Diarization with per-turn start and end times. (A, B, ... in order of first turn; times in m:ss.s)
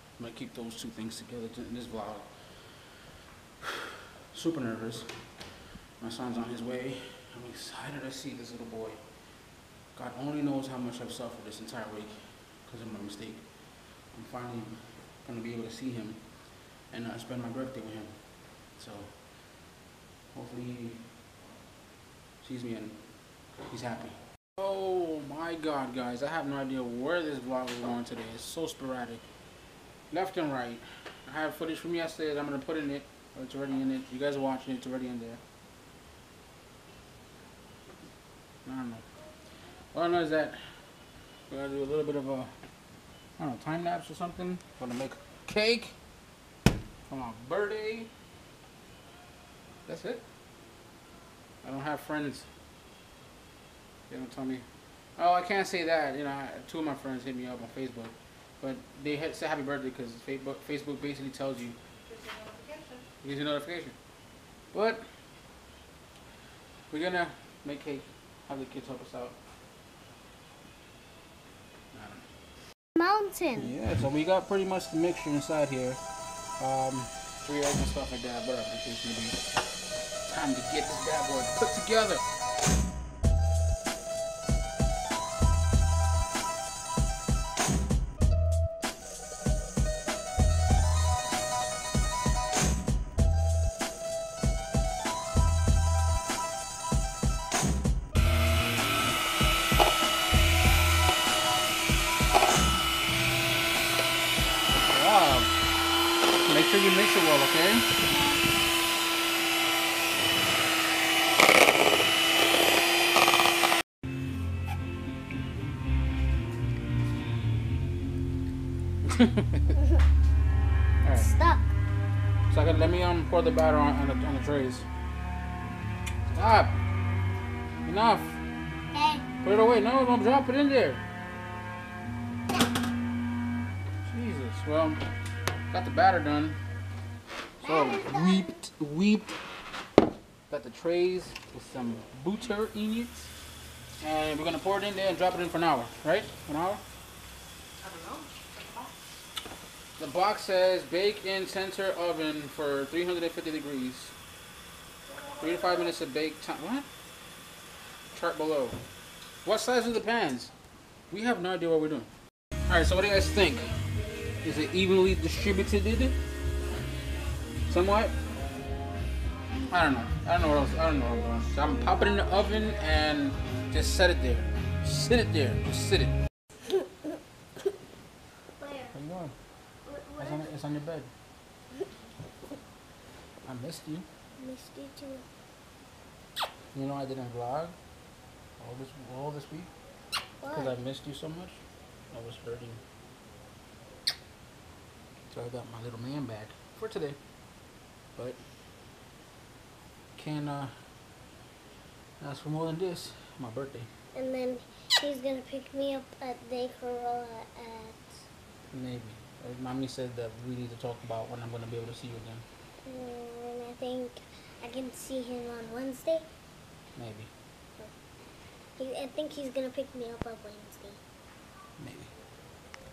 0:00.2-0:02.8 A
0:04.3-0:05.3 A
0:06.0-0:09.0 A
0:09.9-0:19.4 A
0:20.3-0:21.2 A
0:22.4-0:29.2 A
0:30.1-0:35.4 A
0:38.6-0:39.0 A
0:39.9-0:40.6 A
0:41.5-0:42.5 A
0:43.4-0:46.0 A
0:47.1-0:48.1 A
0:49.8-0:50.2 A
0:51.6-0:52.5 A
0:54.1-0:54.6 A
0:55.2-1:01.8 A
1:02.1-1:03.0 B
1:03.2-1:04.0 A
1:04.7-1:05.0 A
1:06.9-1:09.4 A
1:11.9-1:12.3 A
1:12.9-1:13.7 C
1:13.5-1:16.0 A
1:16.6-1:19.4 A
1:20.2-1:22.2 A
1:44.8-1:45.5 A
1:46.4-1:47.9 A
1:59.0-1:59.7 A
2:01.0-2:01.3 A
2:01.2-2:01.6 C
2:02.5-2:04.9 A
2:06.3-2:06.8 A
2:07.8-2:08.4 A
2:08.9-2:09.3 C
2:09.4-2:11.0 A
2:14.0-2:15.0 A
2:15.7-2:16.6 A
2:17.6-2:18.6 C
2:17.6-2:19.4 A
2:20.5-2:23.3 A
2:24.0-2:26.8 A
2:27.8-2:28.9 B
2:30.0-2:34.1 A
2:35.3-2:36.9 A
2:38.1-2:38.8 A
2:39.4-2:40.5 A
2:41.1-2:42.1 A
2:42.7-2:43.7 A
2:44.4-2:46.2 A
2:47.7-2:48.1 A
2:49.7-2:56.1 A
2:58.6-2:58.9 C
2:58.9-2:59.3 A
2:59.8-3:00.5 C
3:00.2-3:01.1 A
3:03.4-3:04.1 A
3:04.4-3:05.2 C
3:06.7-3:07.7 A
3:08.6-3:09.7 A
3:10.4-3:10.7 C
3:10.5-3:11.6 A
3:12.1-3:12.8 A
3:15.3-3:17.2 A
3:20.2-3:20.7 A
3:22.2-3:23.9 A
3:24.1-3:28.0 C
3:28.7-3:32.4 A
3:32.8-3:36.2 C
3:37.0-3:37.3 A
3:38.8-3:41.0 C
3:41.8-3:42.1 A